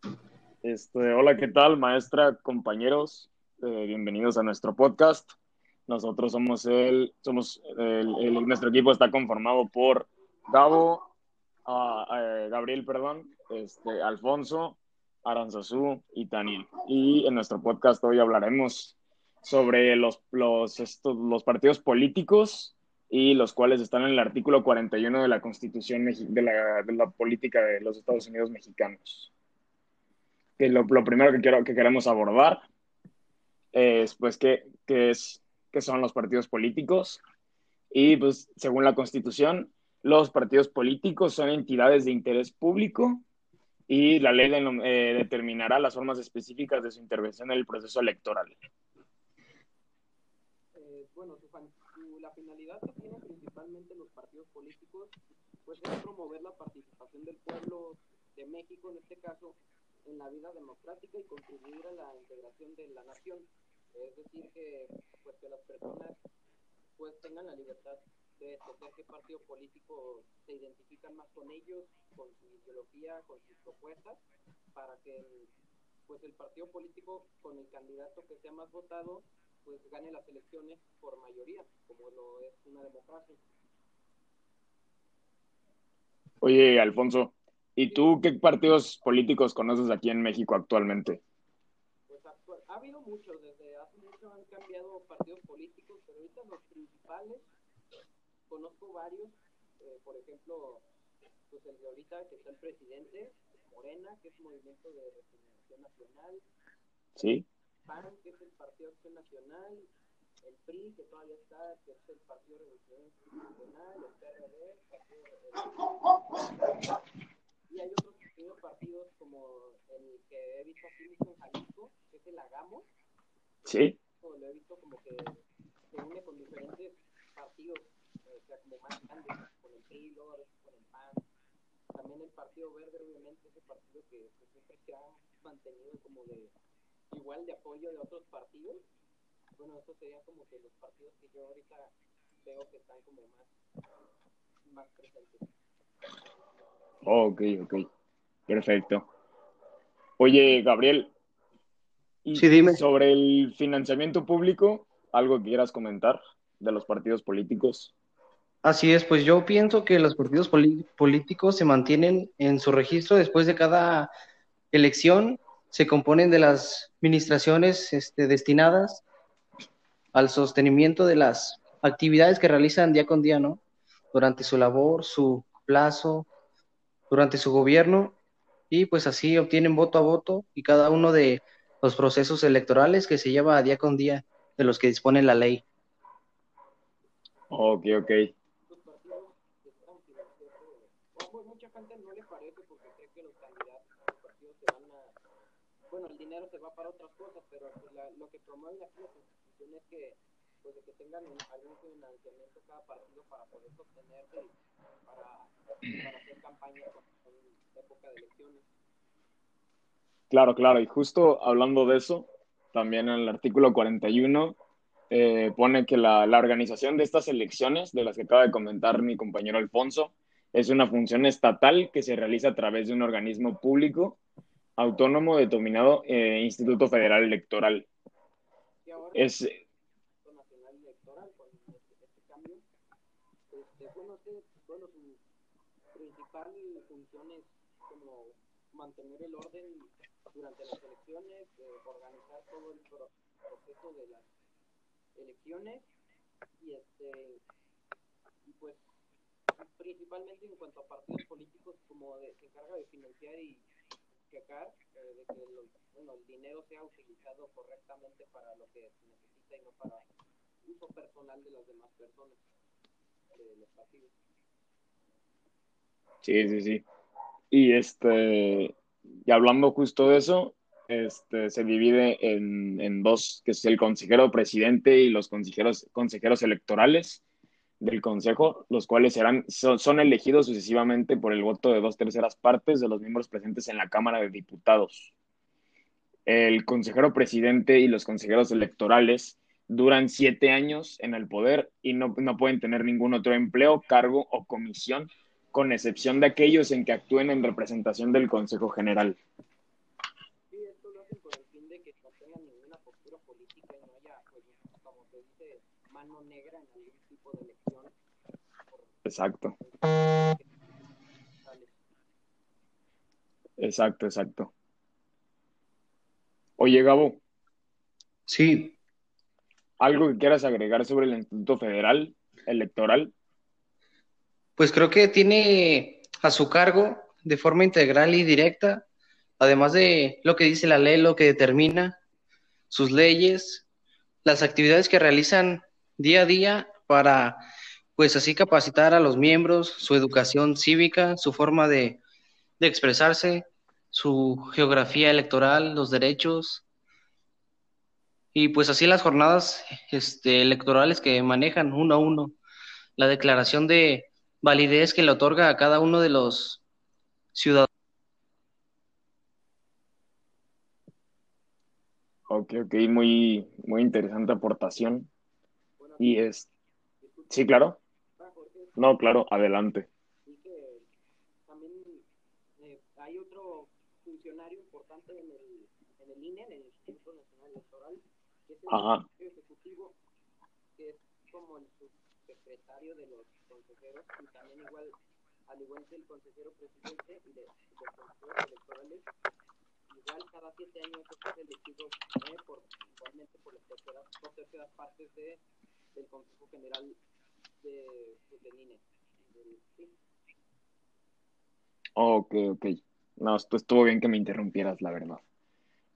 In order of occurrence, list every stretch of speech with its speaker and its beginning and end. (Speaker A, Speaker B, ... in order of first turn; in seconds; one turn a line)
Speaker A: 0.6-5.3
Speaker A: 5.9-11.1
Speaker A: 11.7-29.3
Speaker A: 30.6-32.6
Speaker A: 33.7-37.2
Speaker A: 37.9-43.2
Speaker A: 43.9-48.6
Speaker B: 50.7-66.2
Speaker B: 67.0-74.2
Speaker B: 74.7-75.5
Speaker B: 76.1-83.4
Speaker A: 86.4-91.2
Speaker B: 92.1-97.5
Speaker B: 98.5-100.8
Speaker B: 101.5-106.4
Speaker A: 107.2-107.5
Speaker B: 107.8-109.9
Speaker B: 110.4-115.9
Speaker B: 117.7-122.9
Speaker A: 123.7-124.0
Speaker B: 124.2-125.4
Speaker B: 125.9-131.2
Speaker B: 131.9-136.5
Speaker B: 137.1-138.8
Speaker B: 139.6-141.9
Speaker B: 142.4-143.5
Speaker B: 144.7-145.5
Speaker A: 147.0-147.8
Speaker A: 148.5-149.1
Speaker A: 150.2-151.1
Speaker A: 152.2-157.9
Speaker C: 152.3-152.8
Speaker C: 158.6-164.1
Speaker C: 164.7-169.0
Speaker C: 170.1-173.6
Speaker C: 174.1-176.3
Speaker C: 177.1-178.2
Speaker C: 178.7-185.6
Speaker A: 187.5-188.3
Speaker B: 188.7-195.1
Speaker B: 195.9-208.6
Speaker A: 210.3-214.6
Speaker A: 215.1-224.2
Speaker A: 224.8-227.9
Speaker B: 228.8-229.6
Speaker A: 229.1-229.6
Speaker B: 230.2-232.6
Speaker B: 233.5-235.2
Speaker B: 235.9-244.3
Speaker B: 245.1-245.9
Speaker B: 246.6-247.4
Speaker B: 248.4-248.9
Speaker B: 249.6-253.7
Speaker B: 254.3-260.1
Speaker B: 260.6-262.4
Speaker B: 263.3-264.1
Speaker A: 266.2-266.8
Speaker A: 267.5-268.7
Speaker A: 269.2-277.2
Speaker A: 277.8-285.1
Speaker A: 286.2-299.2
Speaker B: 300.5-307.9
Speaker B: 308.7-309.0
Speaker A: 309.0-309.5
Speaker B: 309.6-310.5
Speaker B: 311.4-311.7
Speaker A: 313.6-314.5
Speaker A: 316.6-317.2
Speaker C: 318.3-318.7
Speaker A: 319.8-323.1
Speaker C: 324.6-328.8
Speaker C: 329.4-332.0
Speaker C: 332.7-333.6
Speaker C: 334.2-337.4
Speaker C: 338.0-342.0
Speaker C: 342.6-346.6
Speaker C: 348.3-352.3
Speaker C: 353.0-356.6
Speaker C: 357.3-357.7
Speaker A: 362.3-365.1
Speaker B: 365.8-366.2
Speaker A: 366.0-366.5
Speaker B: 367.0-367.6
Speaker A: 367.3-367.8
Speaker B: 368.2-368.8
Speaker A: 368.8-369.9
Speaker B: 370.2-370.9
Speaker B: 371.4-372.1
Speaker B: 372.6-380.0
Speaker A: 378.7-379.1
Speaker B: 380.8-384.9
Speaker B: 385.5-389.1
Speaker B: 389.9-395.4
Speaker B: 395.9-397.0
Speaker B: 397.6-400.0
Speaker A: 401.9-405.2